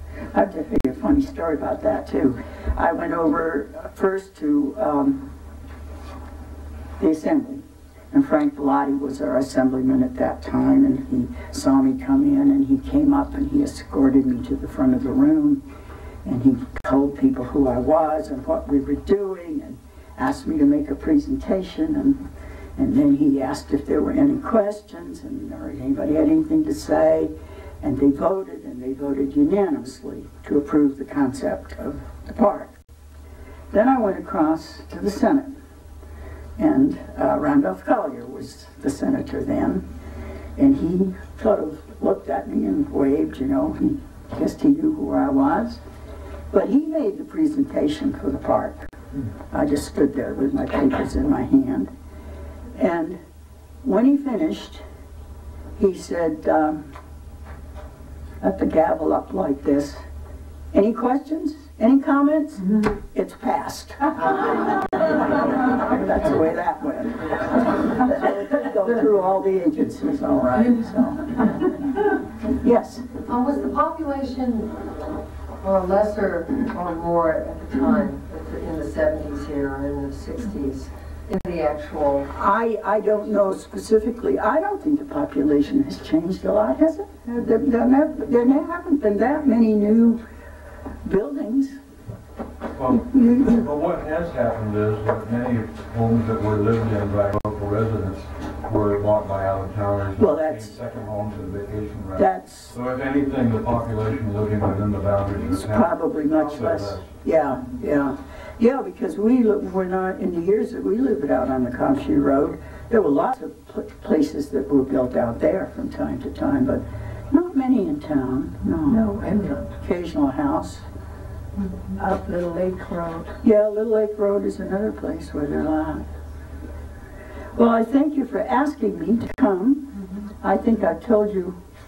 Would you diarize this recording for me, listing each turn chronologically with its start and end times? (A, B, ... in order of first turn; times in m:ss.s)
0:00.3-0:05.3 A
0:07.0-0:15.6 A
0:16.2-0:22.2 A
0:22.8-0:32.7 A
0:33.7-0:35.5 A
0:36.6-0:39.8 A
0:40.6-0:45.8 A
0:46.5-0:48.9 A
0:49.5-0:51.9 A
0:52.8-0:53.2 A
0:53.8-0:54.8 A
0:55.8-0:56.9 A
0:58.4-1:00.0 A
1:00.7-1:11.7 A
1:12.5-1:13.1 A
1:13.2-1:14.9 B
1:15.6-1:22.3 B
1:22.3-1:30.2 A
1:31.0-1:31.8 A
1:32.8-1:47.1 C
1:32.8-1:33.7 A
1:40.2-1:40.8 A
1:42.2-1:42.7 A
1:45.5-1:59.1 A
1:58.9-1:59.7 D
1:59.8-2:00.8 A
2:01.9-2:03.3 D
2:03.4-2:06.1 A
2:07.5-2:11.6 A